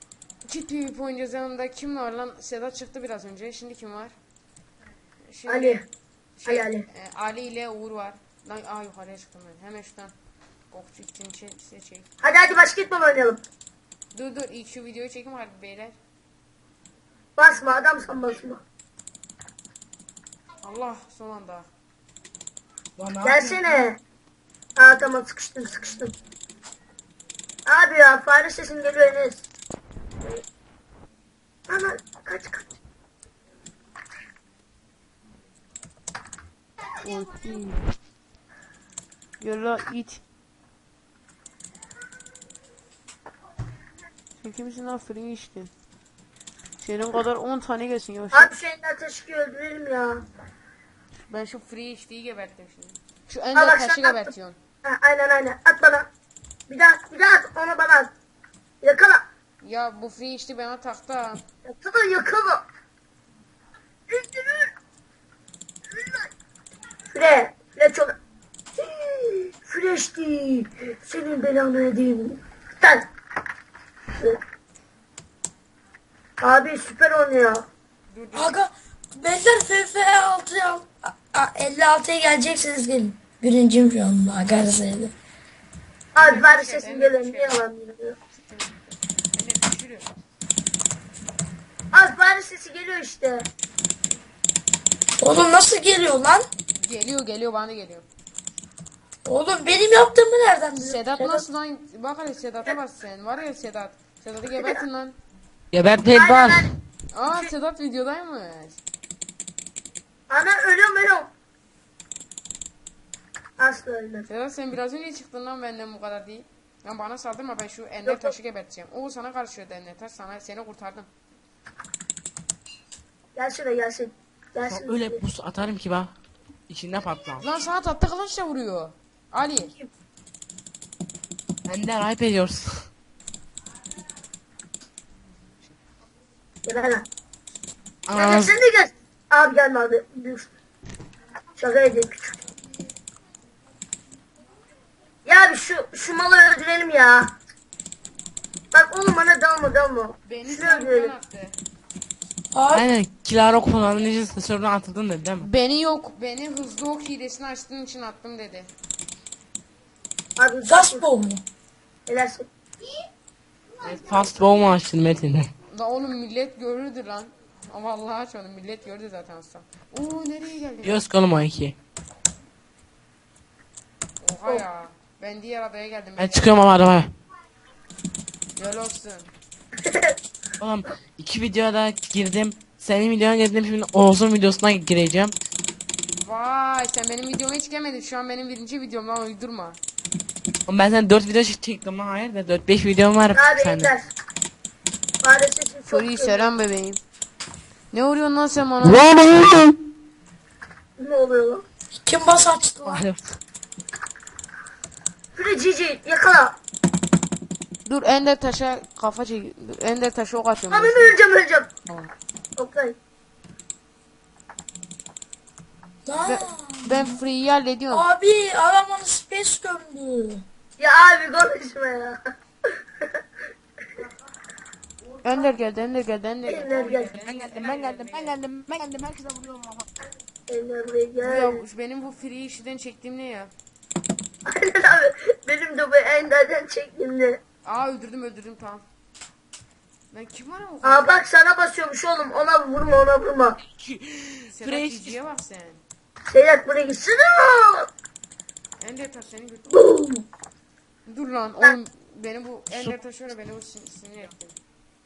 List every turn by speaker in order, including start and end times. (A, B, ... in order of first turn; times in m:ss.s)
0:00.5-0:04.1 A
0:05.2-0:05.8 A
0:05.5-0:05.9 B
0:06.4-0:10.1 A
0:06.5-0:06.9 B
0:10.7-0:12.1 A
0:12.2-0:13.4 B
0:14.1-0:16.0 A
0:17.4-0:18.6 B
0:20.6-0:21.7 A
0:23.0-0:23.9 C
0:23.2-0:24.0 B
0:24.8-0:26.1 B
0:27.7-0:29.4 B
0:31.7-0:32.7 B
0:37.0-0:37.9 A
0:39.4-0:40.2 A
0:44.4-0:45.7 A
0:46.8-0:48.5 A
0:48.3-0:50.2 B
0:51.3-0:54.6 A
0:53.6-0:54.3 B
0:54.8-0:56.1 B
0:56.7-0:58.1 B
0:58.8-0:59.2 B
0:59.6-1:01.4 A
1:01.6-1:02.6 B
1:04.1-1:04.7 B
1:06.0-1:06.3 B
1:07.1-1:08.1 B
1:08.8-1:13.1 B
1:16.4-1:17.7 B
1:18.1-1:18.6 A
1:18.3-1:25.1 D
1:26.2-1:28.2 B
1:26.2-1:27.6 A
1:28.3-1:30.1 A
1:31.9-1:33.5 B
1:35.2-1:36.5 D
1:36.8-1:38.1 A
1:39.2-1:41.4 D
1:40.8-1:45.2 A
1:44.6-1:44.8 B
1:45.7-1:46.8 C
1:46.1-1:46.7 B
1:47.1-1:48.8 A
1:50.3-1:51.3 B
1:53.6-1:54.3 B
1:54.3-2:01.1 A
1:58.0-1:58.4 B
2:03.4-2:05.2 B
2:04.7-2:06.1 C
2:06.7-2:07.4 C
2:07.4-2:09.7 A
2:11.7-2:12.9 C
2:16.6-2:17.1 B
2:18.1-2:18.6 C
2:18.1-2:20.5 B
2:21.6-2:22.4 B
2:25.2-2:27.4 B
2:28.7-2:31.1 B
2:30.2-2:31.6 A
2:32.5-2:32.9 D
2:32.7-2:35.5 C
2:35.4-2:38.7 A
2:40.4-2:41.1 B
2:40.6-2:41.4 D
2:42.1-2:42.5 B
2:43.8-2:45.5 C
2:45.7-2:51.1 A
2:50.8-2:51.8 C
2:54.2-2:56.7 A
2:56.2-2:57.1 C
2:58.6-2:59.3 A
2:59.8-3:00.2 B
3:00.6-3:05.4 C
3:06.2-3:09.8 A
3:10.7-3:13.9 C
3:13.3-3:14.1 B
3:15.2-3:16.5 B
3:15.9-3:17.0 A
3:17.9-3:19.6 A
3:21.0-3:21.6 B
3:22.0-3:23.0 D
3:22.8-3:23.4 C
3:25.4-3:26.6 B
3:27.8-3:31.2 A
3:30.7-3:31.7 B
3:31.9-3:32.1 A
3:32.6-3:33.0 B
3:36.1-3:37.0 D
3:36.2-3:38.1 A
3:37.9-3:40.4 D
3:40.8-3:42.2 B
3:45.2-3:48.4 A
3:46.5-3:47.1 B
3:47.3-3:49.9 C
3:50.5-3:51.6 B
3:51.2-3:53.5 A
3:54.5-3:57.4 B
3:57.6-3:58.8 A
4:00.1-4:01.2 A
4:00.8-4:03.6 B
4:03.8-4:05.2 C
4:04.5-4:05.8 A
4:06.3-4:07.9 B
4:08.8-4:09.8 A
4:09.7-4:10.2 B
4:11.1-4:14.6 A
4:12.7-4:13.0 C